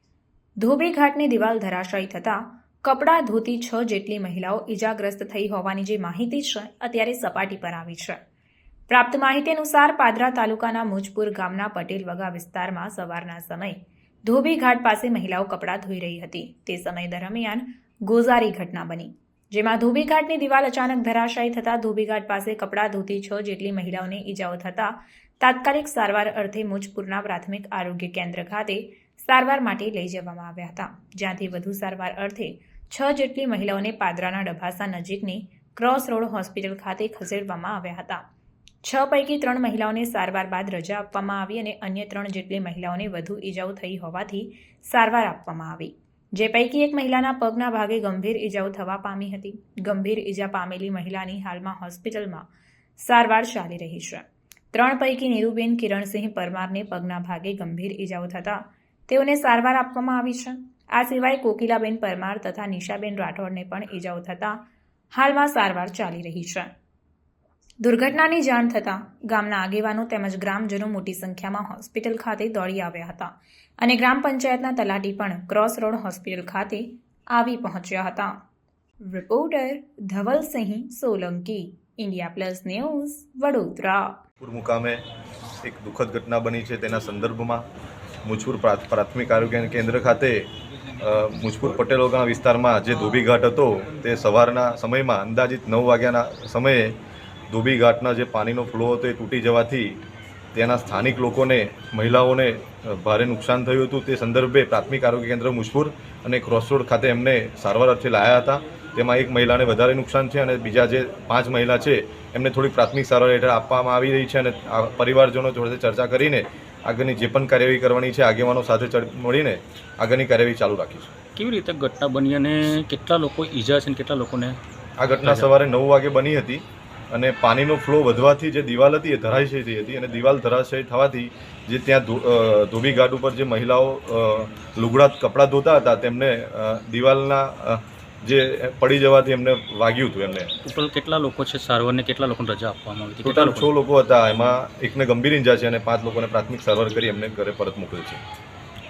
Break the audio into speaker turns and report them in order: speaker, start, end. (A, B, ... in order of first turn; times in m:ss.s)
0:00.6-0:08.2 A
0:08.9-0:38.2 A
0:38.8-1:04.6 A
1:05.1-1:06.7 A
1:07.8-1:18.4 A
1:19.1-1:24.2 A
1:24.4-1:25.0 B
1:25.6-1:27.6 B
1:28.2-1:30.5 B
1:31.0-1:36.9 B
1:37.5-1:40.0 B
1:40.5-2:01.1 B
2:01.4-2:04.6 C
2:05.0-2:20.5 B
2:05.2-2:05.5 C
2:20.7-2:23.7 C
2:23.2-2:28.2 B